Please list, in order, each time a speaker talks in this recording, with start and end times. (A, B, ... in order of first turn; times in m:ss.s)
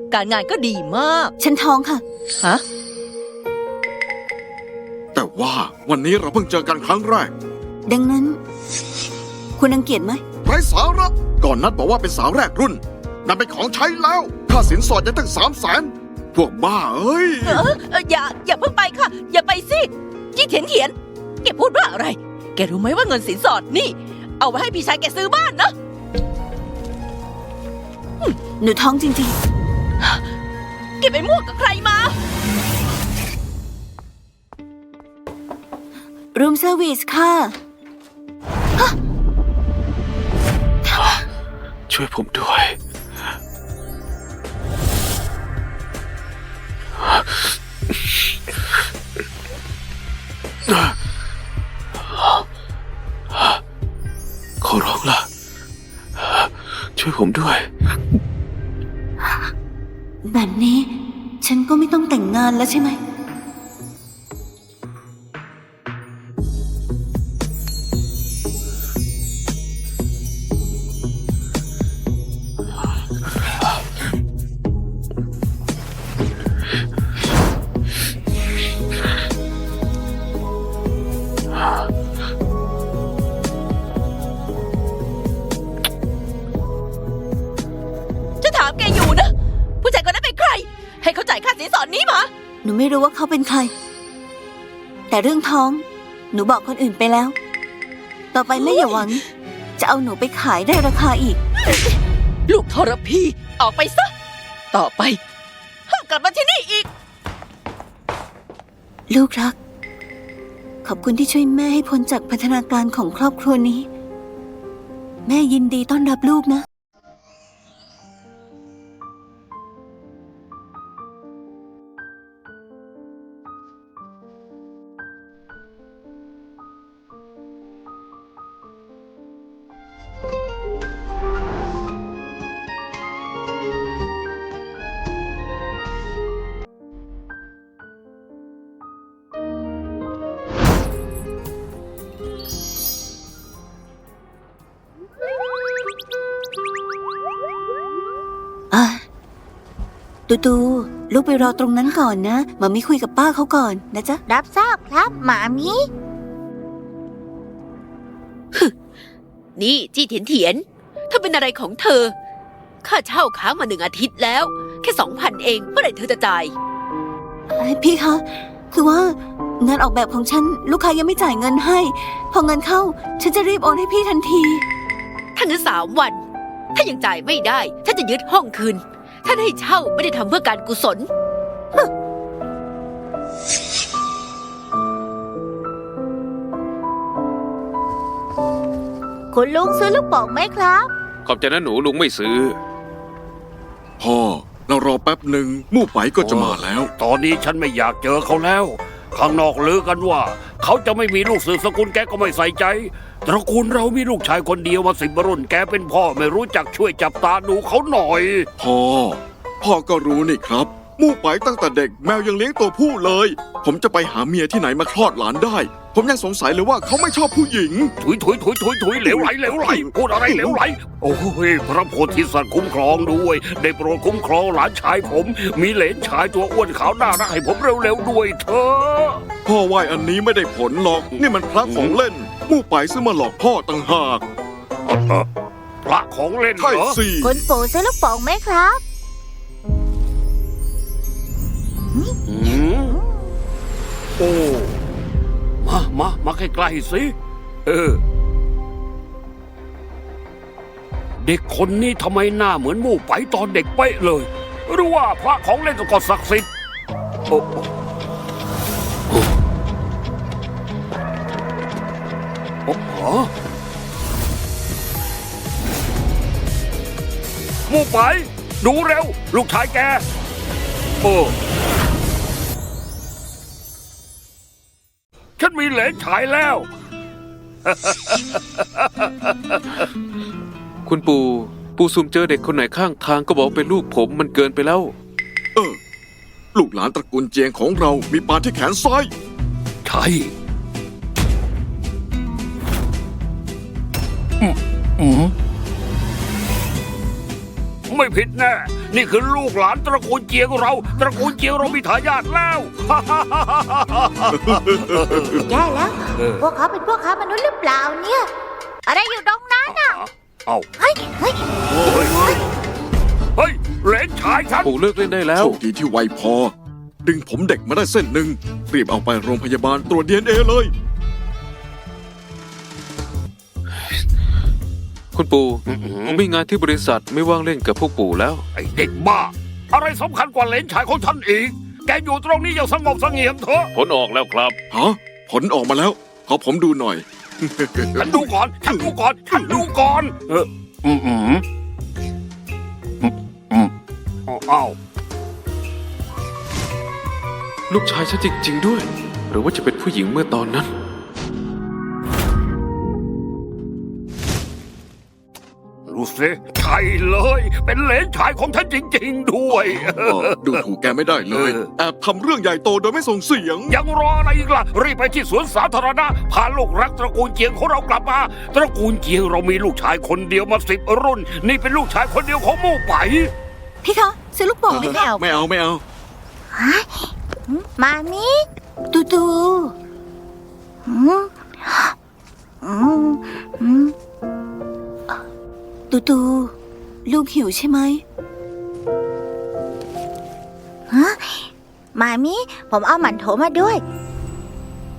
0:00.1-0:01.2 A
0:01.4-0:02.0 B
0:05.2-0:07.3 C
0:07.9-0:08.4 B
0:09.6-0:10.2 B
0:10.4-0:17.7 C
0:17.4-0:25.7 A
0:28.6-0:29.4 B
0:31.0-0:32.2 A
0:36.3-0:37.6 B
0:40.9-0:41.2 B
0:41.9-0:42.8 D
0:47.0-0:48.1 D
0:50.7-0:50.9 D
0:52.1-0:52.4 D
0:53.3-0:53.6 D
0:54.6-0:55.3 D
0:56.2-0:57.7 D
1:00.3-1:03.0 B
1:28.4-1:32.3 A
1:32.6-1:33.7 B
1:35.1-1:37.4 B
1:38.3-1:39.2 B
1:38.6-1:39.0 A
1:39.8-1:41.4 B
1:41.7-1:42.0 A
1:42.5-1:44.1 A
1:44.7-1:45.2 A
1:45.9-1:46.9 A
1:49.1-1:49.6 B
1:50.8-1:53.9 B
1:55.3-1:56.6 B
2:28.7-2:29.0 B
2:30.3-2:34.2 B
2:34.3-2:35.9 E
2:39.6-2:42.1 F
2:42.8-2:46.5 F
2:47.6-2:54.6 B
2:55.4-2:56.2 F
2:56.8-3:01.1 F
3:09.3-3:10.9 E
3:11.2-3:12.6 D
3:14.0-3:16.9 C
3:16.2-3:28.5 G
3:28.6-3:37.9 C
3:38.0-3:49.2 G
3:39.0-3:40.6 C
3:49.4-3:54.2 C
3:51.1-3:52.0 G
3:54.9-3:55.3 G
3:55.8-3:57.0 G
3:56.6-3:57.4 C
3:57.2-3:58.8 E
4:01.9-4:03.4 E
4:02.3-4:03.0 G
4:04.2-4:04.7 G
4:05.6-4:07.1 G
4:07.7-4:08.0 G
4:11.2-4:16.5 G
4:17.3-4:17.7 G
4:22.7-4:23.3 G
4:27.7-4:30.0 G
4:31.0-4:31.3 G
4:35.4-4:36.7 G
4:37.7-4:39.9 G
4:40.9-4:44.9 D
4:46.6-4:49.1 C
4:49.8-4:50.3 G
4:54.4-4:55.3 G
4:57.9-5:05.4 G
5:04.5-5:05.4 C
5:05.5-5:08.3 E
5:06.2-5:06.4 G
5:08.9-5:10.0 E
5:09.7-5:10.7 G
5:10.8-5:11.5 E
5:11.7-5:12.1 C
5:11.9-5:12.2 G
5:13.4-5:14.7 G
5:14.6-5:15.6 D
5:15.3-5:16.5 C
5:17.0-5:20.7 C
5:25.1-5:28.4 D
5:25.7-5:26.2 G
5:28.6-5:33.7 G
5:33.8-5:34.6 D
5:34.7-5:39.7 C
5:38.0-5:41.4 G
5:43.0-5:43.7 G
5:44.3-5:44.8 G
5:47.7-5:50.7 D
5:55.9-6:00.6 G
5:59.5-6:03.8 C
6:01.3-6:01.7 G
6:03.7-6:13.3 G
6:13.8-6:15.1 B
6:14.7-6:15.8 C
6:16.5-6:18.4 E
6:18.9-6:19.7 B
6:20.9-6:22.0 E
6:22.6-6:23.9 E
6:25.9-6:26.5 B
6:27.1-6:28.0 B
6:30.9-6:33.8 E